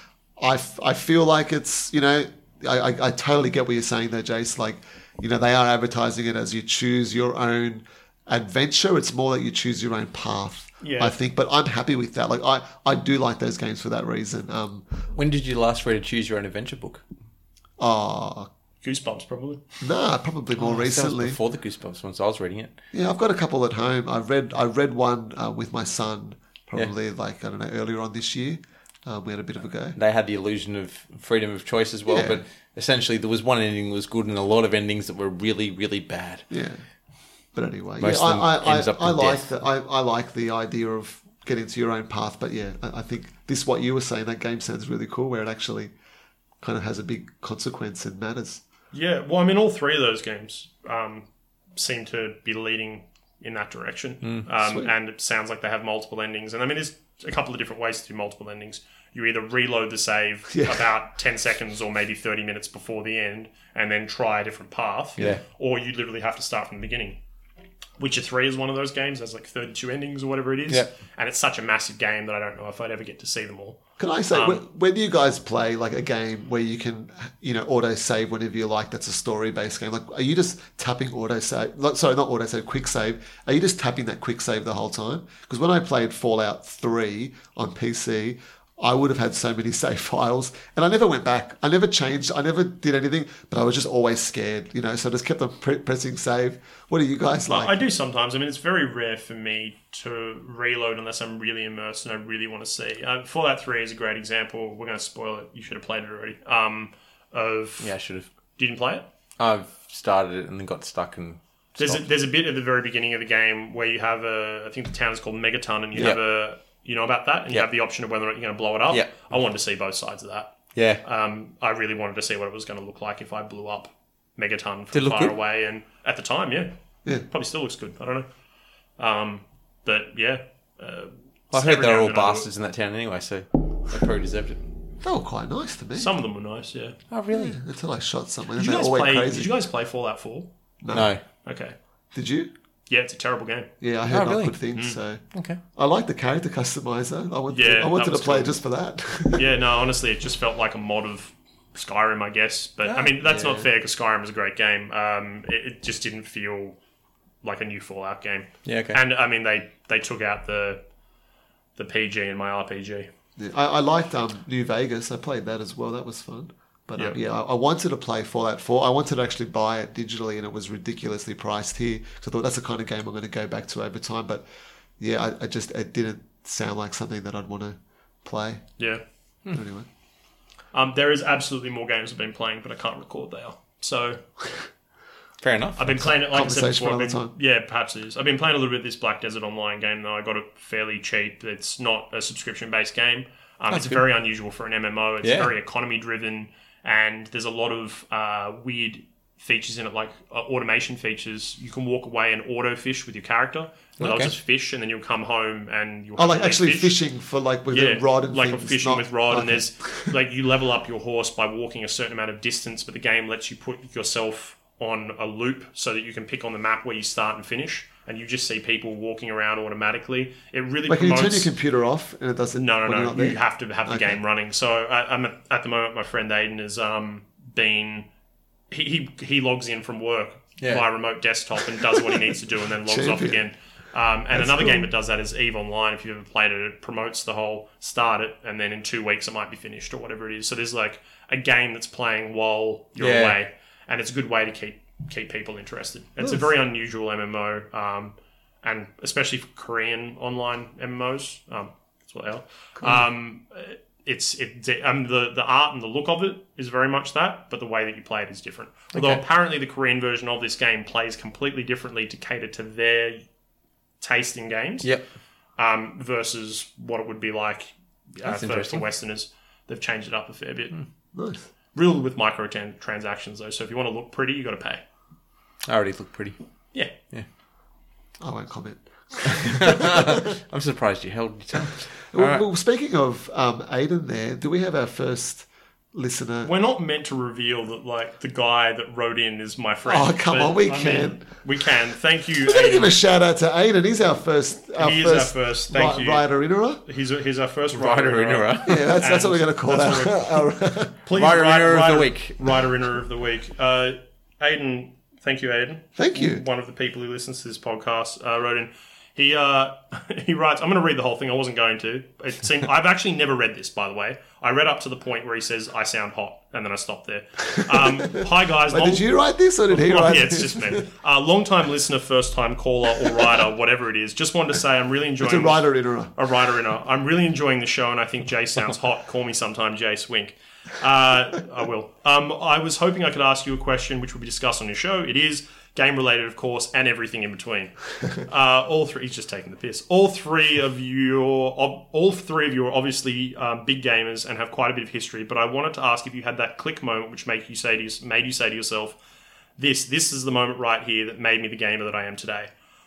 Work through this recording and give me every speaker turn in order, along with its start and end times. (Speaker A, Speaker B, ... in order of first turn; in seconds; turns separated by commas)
Speaker A: 0.4-14.9, Speaker B: 10.8-11.2, Speaker C: 15.1-17.0, Speaker A: 17.8-18.5, Speaker B: 18.8-19.6, Speaker A: 19.8-21.4, Speaker C: 20.6-22.8, Speaker A: 22.9-30.0, Speaker C: 29.9-36.5, Speaker A: 32.1-32.4, Speaker A: 36.5-36.8, Speaker A: 37.5-45.9, Speaker C: 38.0-39.4, Speaker A: 46.6-48.6, Speaker B: 48.9-67.2, Speaker A: 60.5-60.9, Speaker B: 68.0-73.8, Speaker A: 74.0-97.8, Speaker B: 74.3-74.6, Speaker B: 97.5-107.9, Speaker C: 107.8-108.3, Speaker B: 108.6-109.1, Speaker C: 109.4-112.1, Speaker B: 111.8-126.7, Speaker C: 115.9-116.2, Speaker C: 118.9-119.2, Speaker C: 120.8-121.0, Speaker C: 124.9-125.3, Speaker B: 127.3-128.3, Speaker B: 129.0-132.5, Speaker C: 131.5-134.6, Speaker A: 135.0-136.2, Speaker B: 136.0-137.0, Speaker C: 137.1-137.6, Speaker A: 137.3-139.5, Speaker B: 138.6-140.5, Speaker A: 140.8-141.1, Speaker C: 140.9-141.2, Speaker B: 141.4-141.8, Speaker A: 142.1-142.5, Speaker B: 142.9-143.7, Speaker A: 143.8-145.2, Speaker C: 144.1-144.6, Speaker B: 144.7-145.0, Speaker C: 145.3-145.6, Speaker A: 145.8-149.6, Speaker B: 147.5-148.6, Speaker B: 149.3-156.8, Speaker C: 152.8-153.4, Speaker A: 153.3-153.7, Speaker B: 157.4-160.8, Speaker C: 158.7-159.0, Speaker B: 161.8-163.1, Speaker A: 163.4-174.4, Speaker A: 175.0-178.6, Speaker A: 179.5-179.9, Speaker B: 180.7-184.2, Speaker C: 185.4-186.0, Speaker B: 185.8-207.0, Speaker A: 186.0-187.3, Speaker C: 193.7-194.0, Speaker C: 195.2-195.5, Speaker C: 204.0-204.3, Speaker A: 206.2-210.2, Speaker B: 207.7-221.5, Speaker A: 220.9-224.2, Speaker B: 222.6-228.1, Speaker B: 228.7-263.2, Speaker C: 230.6-230.9, Speaker A: 232.8-233.4, Speaker A: 234.3-234.9, Speaker C: 243.0-243.4, Speaker C: 258.9-259.2, Speaker B: 264.0-264.9, Speaker B: 265.6-270.8, Speaker C: 268.2-268.9, Speaker A: 271.1-271.5, Speaker B: 271.8-274.8, Speaker C: 275.7-276.4, Speaker A: 278.2-280.3, Speaker C: 279.3-282.4, Speaker A: 282.1-286.5, Speaker B: 286.4-293.0, Speaker A: 289.9-291.3, Speaker A: 292.5-296.8, Speaker B: 294.8-296.3, Speaker B: 296.8-319.1, Speaker C: 297.7-298.9, Speaker A: 298.6-300.9, Speaker C: 301.1-302.6, Speaker A: 306.0-306.4, Speaker A: 317.5-320.9, Speaker B: 319.7-349.0, Speaker A: 325.2-326.1, Speaker B: 349.6-352.5